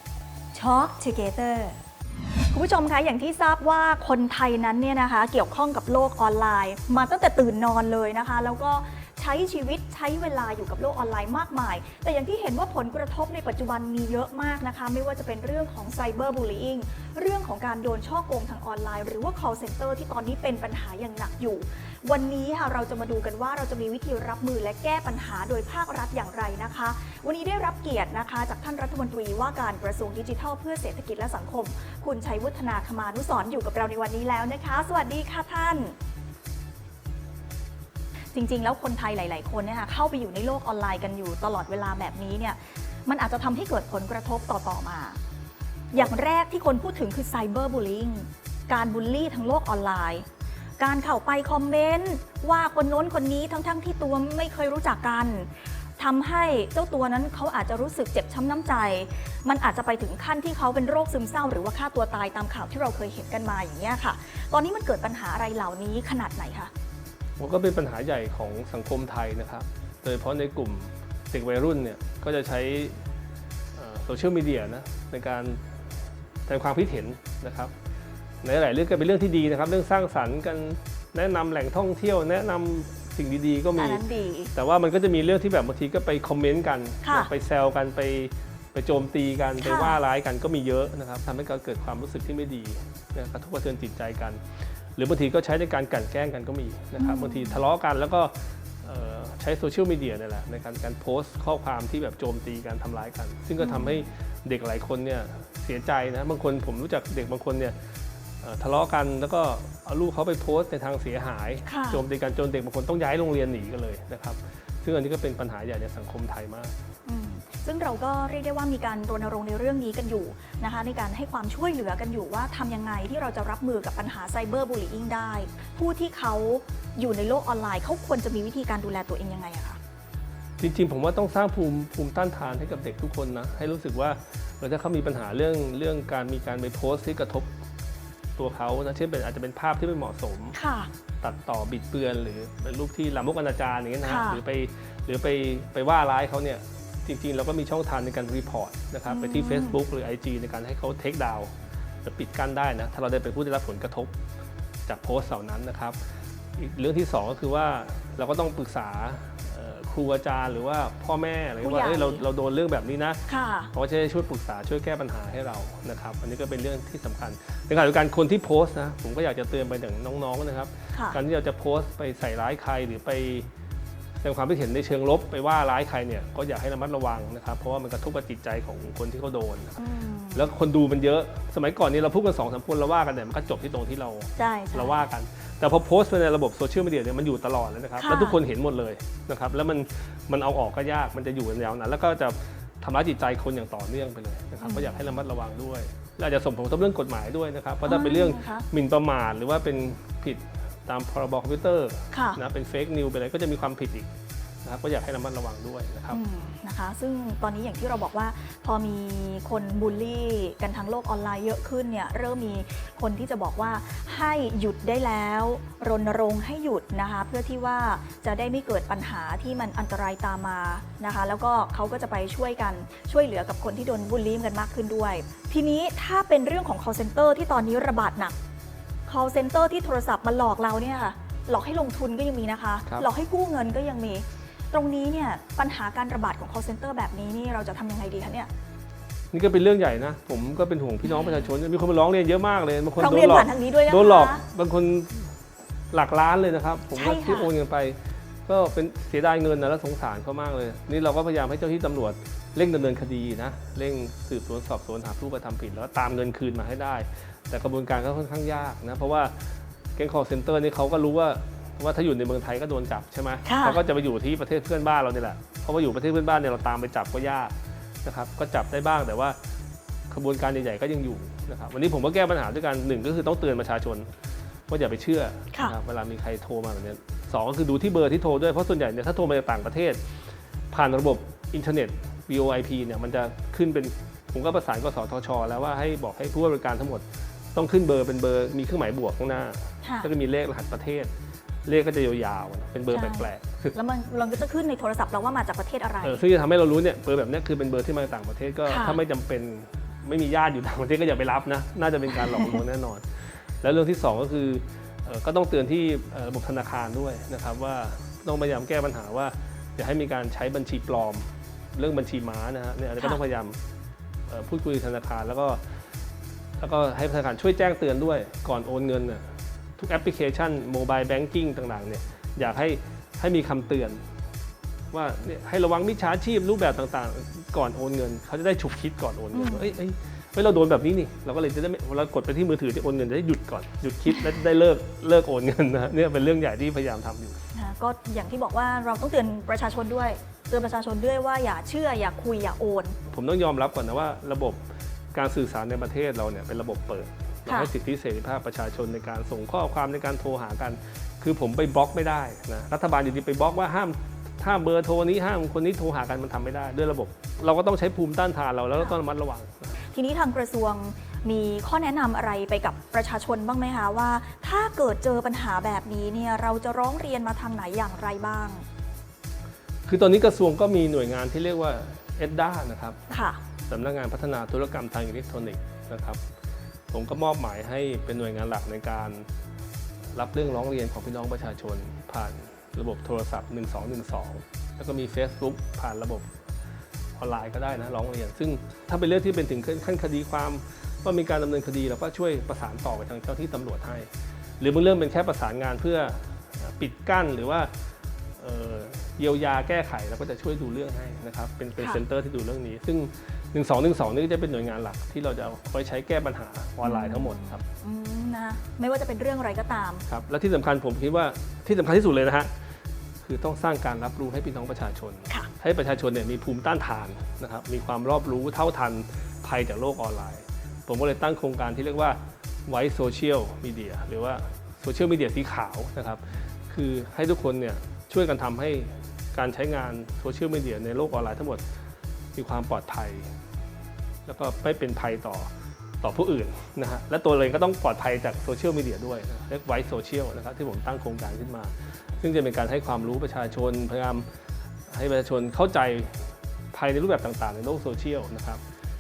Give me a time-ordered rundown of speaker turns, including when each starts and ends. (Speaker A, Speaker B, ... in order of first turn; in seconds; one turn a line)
Speaker A: 0.5-1.8
Speaker A: 2.5-36.0
Speaker A: 38.3-45.2
Speaker A: 45.9-50.2
Speaker A: 50.8-66.7
Speaker B: 67.4-73.0
Speaker B: 73.8-75.6
Speaker B: 76.5-77.7
Speaker B: 78.4-84.0
Speaker A: 83.8-84.5
Speaker B: 84.5-94.4
Speaker A: 87.0-87.3
Speaker A: 89.6-90.0
Speaker B: 95.0-107.7
Speaker A: 97.0-97.6
Speaker A: 103.6-104.1
Speaker B: 108.4-116.7
Speaker A: 111.7-112.0
Speaker A: 117.1-129.8
Speaker B: 130.6-137.5
Speaker B: 138.4-140.6
Speaker A: 140.6-140.9
Speaker B: 141.2-151.5
Speaker A: 144.0-144.4
Speaker A: 149.1-149.8
Speaker B: 152.0-154.1
Speaker B: 154.9-156.0
Speaker B: 156.6-163.2
Speaker A: 161.6-162.2
Speaker A: 163.3-163.7
Speaker B: 163.7-173.5
Speaker A: 170.9-171.2
Speaker B: 174.2-179.8
Speaker A: 179.8-180.5
Speaker B: 180.3-204.1
Speaker A: 184.4-185.1
Speaker A: 188.0-188.4
Speaker A: 194.6-195.1
Speaker A: 197.8-198.7
Speaker A: 202.1-202.4
Speaker B: 204.6-206.2
Speaker A: 206.1-228.4
Speaker A: 229.1-238.5
Speaker B: 239.3-245.3
Speaker A: 241.1-241.4
Speaker A: 243.0-244.4
Speaker B: 245.9-259.3
Speaker A: 246.9-247.5
Speaker B: 260.0-269.4
Speaker A: 263.4-263.8
Speaker B: 270.1-274.1
Speaker B: 274.7-280.0
Speaker B: 280.7-287.0
Speaker B: 287.6-291.1
Speaker A: 289.8-290.1
Speaker B: 291.6-293.8
Speaker A: 292.9-296.2
Speaker B: 296.0-313.6
Speaker A: 298.7-299.0
Speaker B: 314.3-315.6
Speaker B: 316.6-319.2
Speaker B: 319.8-324.0
Speaker B: 324.9-337.4
Speaker A: 329.3-329.8
Speaker A: 337.5-343.0
Speaker B: 343.1-344.6
Speaker B: 345.1-359.8
Speaker A: 359.9-368.6
Speaker B: 369.9-373.0
Speaker A: 373.1-373.4
Speaker B: 373.7-376.2
Speaker B: 376.9-379.3
Speaker B: 380.1-386.3
Speaker B: 387.2-394.1
Speaker B: 394.6-397.7
Speaker B: 398.4-407.6
Speaker A: 401.8-402.0
Speaker A: 406.8-410.1
Speaker B: 410.1-412.5
Speaker B: 413.2-431.6
Speaker B: 432.4-433.3
Speaker B: 434.3-435.5
Speaker B: 436.0-444.3
Speaker B: 444.9-448.6